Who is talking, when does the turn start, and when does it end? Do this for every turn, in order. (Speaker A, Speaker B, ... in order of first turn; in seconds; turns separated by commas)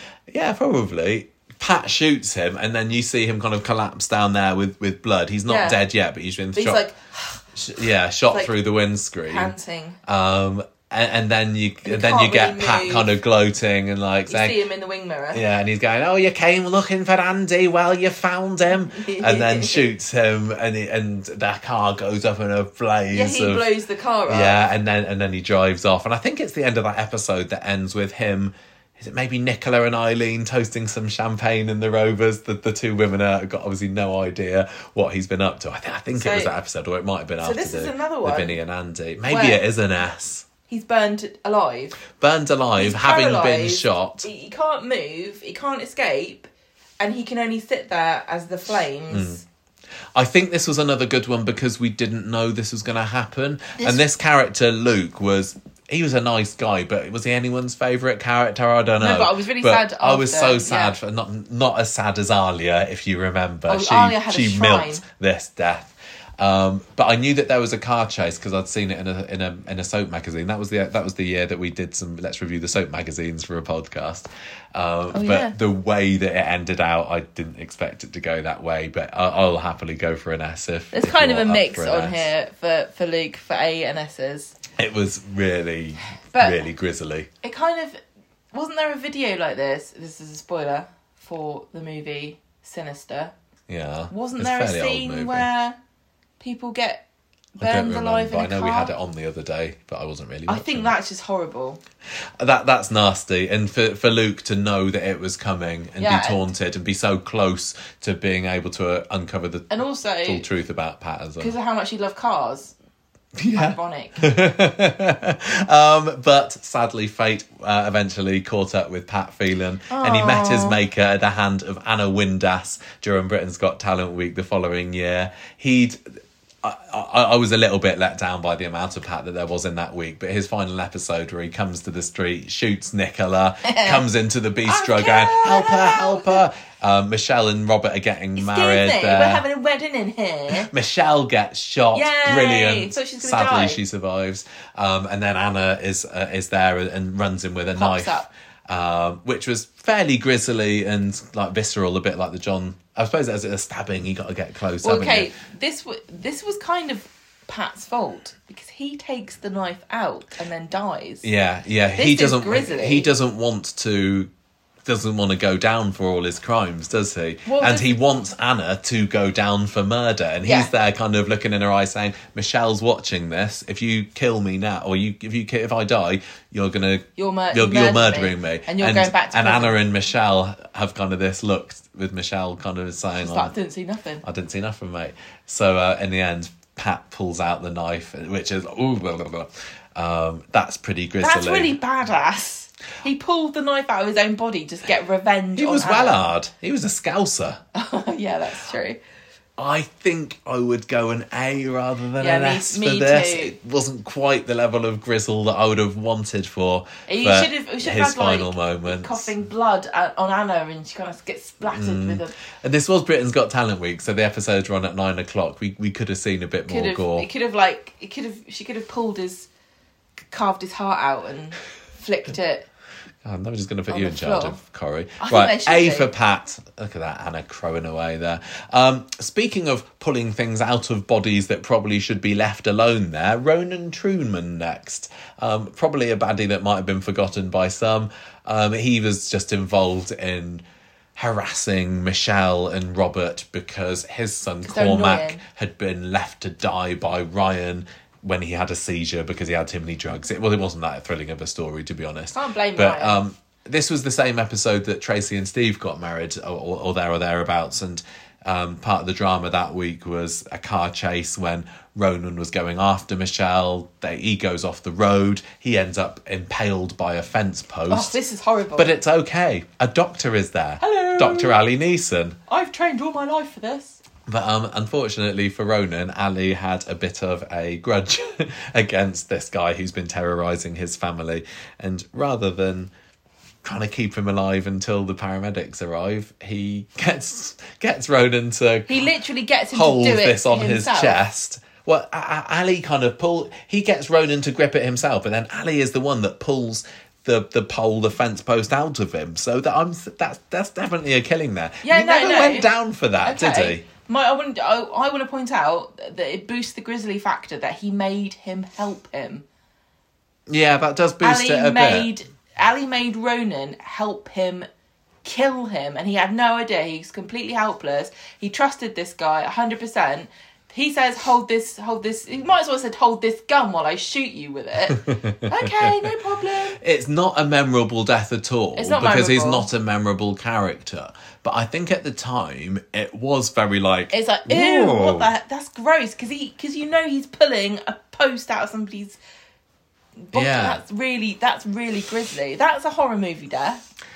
Speaker A: 0.3-6.8, Speaker B: 5.5-5.8, Speaker B: 6.5-7.4, Speaker A: 7.5-9.5, Speaker B: 9.2-10.0, Speaker A: 10.0-14.6, Speaker B: 11.8-13.1, Speaker B: 14.3-15.4, Speaker A: 15.3-23.7, Speaker B: 18.9-19.9, Speaker B: 23.1-24.7, Speaker A: 24.3-40.5, Speaker B: 36.1-36.6, Speaker B: 37.4-38.6, Speaker B: 39.2-39.6, Speaker B: 40.7-42.0, Speaker A: 42.1-44.3, Speaker B: 42.8-49.4, Speaker A: 49.1-49.4, Speaker A: 50.1-82.3, Speaker B: 59.0-61.0, Speaker B: 63.7-65.0, Speaker B: 75.1-75.5, Speaker B: 80.9-84.5, Speaker A: 84.8-87.3, Speaker B: 86.3-86.6, Speaker B: 87.4-88.0, Speaker B: 88.5-93.3, Speaker A: 93.7-95.5, Speaker B: 94.1-95.8, Speaker B: 96.4-97.0, Speaker B: 97.5-98.9, Speaker A: 97.6-100.9, Speaker B: 100.5-101.8, Speaker A: 102.4-111.5, Speaker B: 106.0-106.5, Speaker B: 109.7-110.4, Speaker B: 111.4-112.7, Speaker A: 113.3-139.4, Speaker B: 113.5-114.2, Speaker B: 119.9-120.8, Speaker B: 133.6-134.0, Speaker B: 134.6-136.4, Speaker B: 138.3-140.7, Speaker A: 140.5-155.3, Speaker B: 141.9-143.8, Speaker B: 147.8-148.3, Speaker B: 154.8-161.3, Speaker A: 161.2-164.3, Speaker B: 161.9-163.1, Speaker A: 164.8-183.5, Speaker B: 167.4-167.9, Speaker B: 170.4-170.7, Speaker B: 177.2-179.8, Speaker B: 183.2-184.2, Speaker A: 184.2-191.8, Speaker B: 191.2-196.2, Speaker A: 195.6-197.6, Speaker B: 197.7-199.0, Speaker A: 199.6-209.3, Speaker B: 202.2-203.5, Speaker B: 207.1-212.3, Speaker A: 211.7-217.3, Speaker B: 216.7-219.5, Speaker B: 220.3-222.7, Speaker A: 223.2-240.6, Speaker B: 223.9-224.6, Speaker B: 225.2-226.1, Speaker A: 241.2-268.2, Speaker B: 244.6-245.4, Speaker B: 252.3-253.2, Speaker B: 267.9-269.0, Speaker A: 268.8-272.4, Speaker B: 270.8-271.6, Speaker B: 272.5-274.0, Speaker A: 274.3-282.9, Speaker A: 283.6-289.0, Speaker B: 288.9-291.2, Speaker A: 289.7-303.8, Speaker B: 301.8-302.7, Speaker B: 303.2-309.4, Speaker A: 310.5-312.1, Speaker B: 311.2-314.7, Speaker B: 315.2-326.8, Speaker A: 324.9-325.9, Speaker A: 326.8-335.3, Speaker B: 328.8-329.7, Speaker B: 334.1-339.2, Speaker B: 340.3-343.8, Speaker A: 340.3-340.8